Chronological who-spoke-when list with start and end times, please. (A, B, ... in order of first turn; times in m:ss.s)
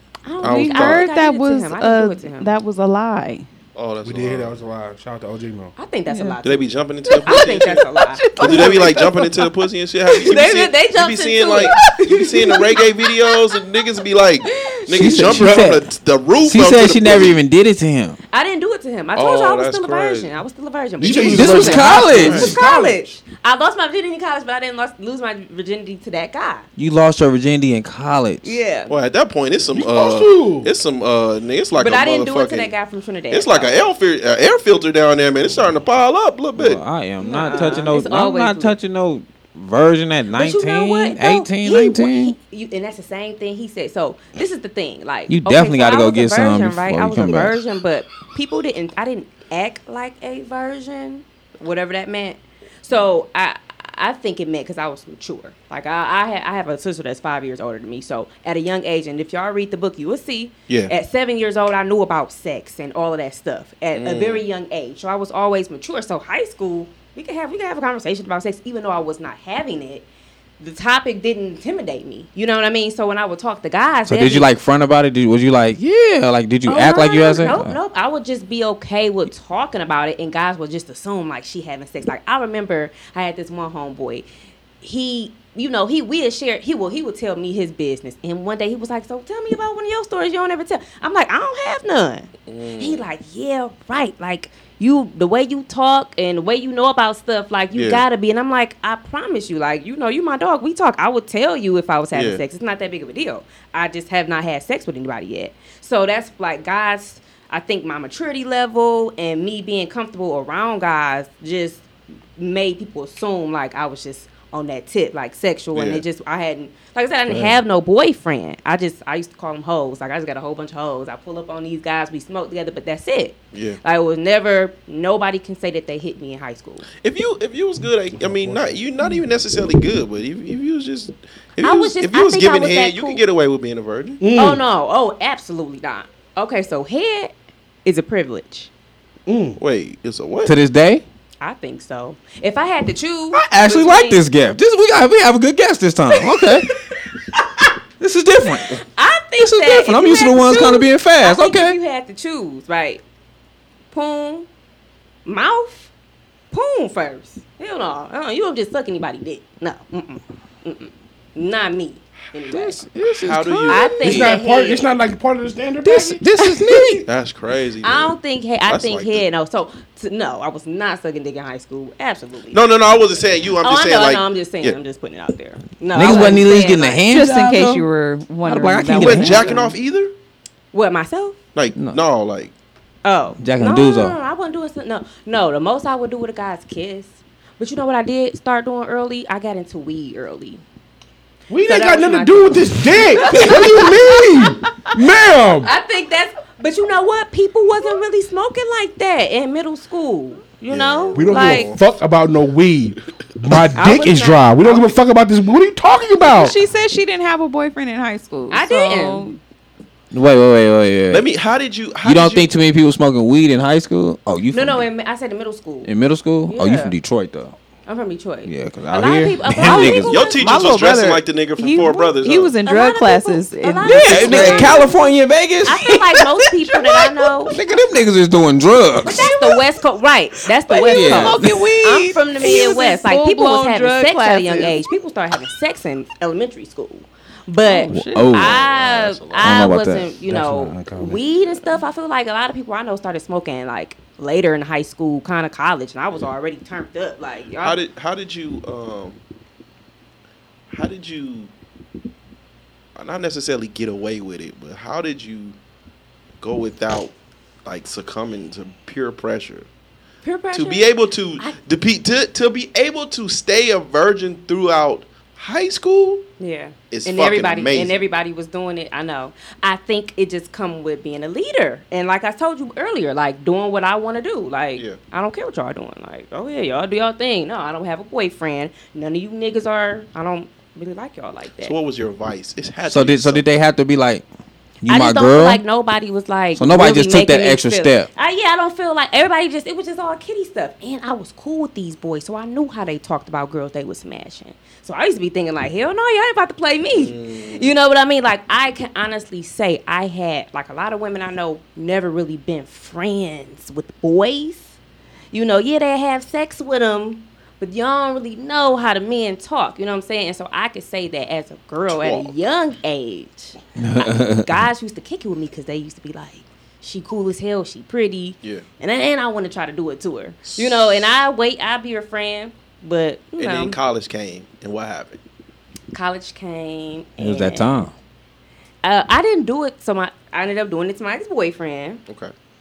0:00.2-0:02.5 A
0:00.4-0:01.0 B
0:00.4-0:03.5 C
0:03.7-0:04.6 B
0:04.0-0:05.7 D
0:05.8-0:08.9 A
0:06.1-0:06.4 C
0:06.4-0:07.8 B
0:07.0-0:09.7 C
0:08.4-0:17.4 B
0:10.1-0:12.8 A
0:11.6-0:12.9 C
0:14.5-0:15.4 A
0:14.9-0:15.8 E
0:16.4-0:18.2 E
0:18.3-0:26.6 A
0:19.1-0:20.3 B
0:21.0-0:22.6 B
0:21.0-0:23.0 D
0:21.3-0:22.6 E
0:26.8-0:28.6 E
0:28.4-0:28.9 A
0:28.9-0:32.7 B
0:29.7-0:30.7 D
0:31.7-0:33.8 A
0:33.3-0:36.8 B
0:36.6-0:42.4 E
0:37.2-0:38.8 A
0:37.5-0:37.9 B
0:40.3-1:10.0 A
0:45.3-0:47.6 E
1:00.7-1:00.9 B
1:03.9-1:04.4 B
1:10.6-1:14.5 A
1:14.1-1:17.8 E
1:16.6-1:24.2 A
1:24.8-1:51.8 A
1:32.5-1:33.0 B
1:37.7-1:38.0 B
1:42.1-1:42.4 B
1:52.4-2:06.8 A
1:55.7-1:56.0 B
1:57.3-1:57.5 B
2:03.5-2:03.8 B
2:07.0-2:14.2 B
2:08.2-2:09.2 D
2:11.6-2:13.2 A
2:14.2-2:14.6 D
2:14.4-2:17.3 A
2:17.8-2:18.7 A
2:19.2-2:19.6 D
2:19.6-2:20.5 B
2:20.4-2:21.0 E
2:21.4-2:24.2 A
2:23.3-2:26.7 E
2:28.0-2:28.8 E
2:28.9-2:33.0 A
2:29.4-2:31.8 E
2:33.9-2:34.5 A
2:35.2-2:35.9 A
2:36.5-2:42.9 A
2:42.5-2:44.3 E
2:43.2-2:44.2 B
2:43.7-2:44.9 A
2:44.0-2:46.9 D
2:45.8-2:47.0 E
2:47.0-2:49.2 B
2:47.8-2:52.6 A
2:52.5-2:54.8 B
2:53.6-2:57.0 A
2:55.9-2:57.8 E
2:57.1-2:59.6 C
2:58.4-2:59.5 E
2:58.6-2:59.7 A
2:59.0-3:00.1 B
3:00.7-3:01.4 A
3:01.5-3:02.5 B
3:01.8-3:02.0 E
3:03.0-3:10.6 A
3:03.4-3:04.2 E
3:11.5-3:15.7 D
3:11.6-3:14.4 A
3:15.5-3:21.8 A
3:20.7-3:21.8 B
3:21.1-3:26.6 D
3:23.7-3:24.9 A
3:26.2-3:29.4 C
3:28.5-3:29.3 A
3:30.1-3:31.3 E
3:31.1-3:32.5 B
3:32.0-3:34.8 E
3:34.5-3:35.9 A
3:35.8-3:37.6 E
3:36.5-3:36.9 A
3:37.8-3:40.5 A
3:38.4-3:40.2 E
3:39.6-3:44.8 C
3:40.1-3:42.5 B
3:42.6-3:45.1 A
3:43.8-3:46.3 E
3:45.6-3:47.5 A
3:46.7-3:47.6 C
3:47.5-3:49.3 E
3:49.0-4:07.8 A
3:50.7-3:54.8 C
3:50.9-3:51.6 E
3:57.6-3:58.3 C
3:57.9-3:58.6 E
3:58.3-3:59.6 B
3:59.4-4:01.2 E
4:07.6-4:09.2 B
4:10.7-4:11.5 B
4:13.0-4:15.6 B
4:16.4-4:17.1 B
4:17.6-4:19.7 B
4:20.2-4:21.6 A
4:20.5-4:26.2 B
4:26.4-4:41.8 A
4:26.9-4:28.0 B
4:41.6-4:43.4 B
4:42.9-4:44.2 E
4:44.8-4:45.6 E
4:44.8-5:04.8 A
4:46.6-4:48.1 E
4:56.9-4:57.7 B
5:05.3-5:23.8 A
5:11.9-5:12.3 B
5:13.8-5:14.5 E
5:20.4-5:21.0 B
5:23.4-5:25.2 B
5:25.9-5:27.8 A
5:27.2-5:27.9 E
5:28.8-5:32.0 A
5:32.1-5:32.3 B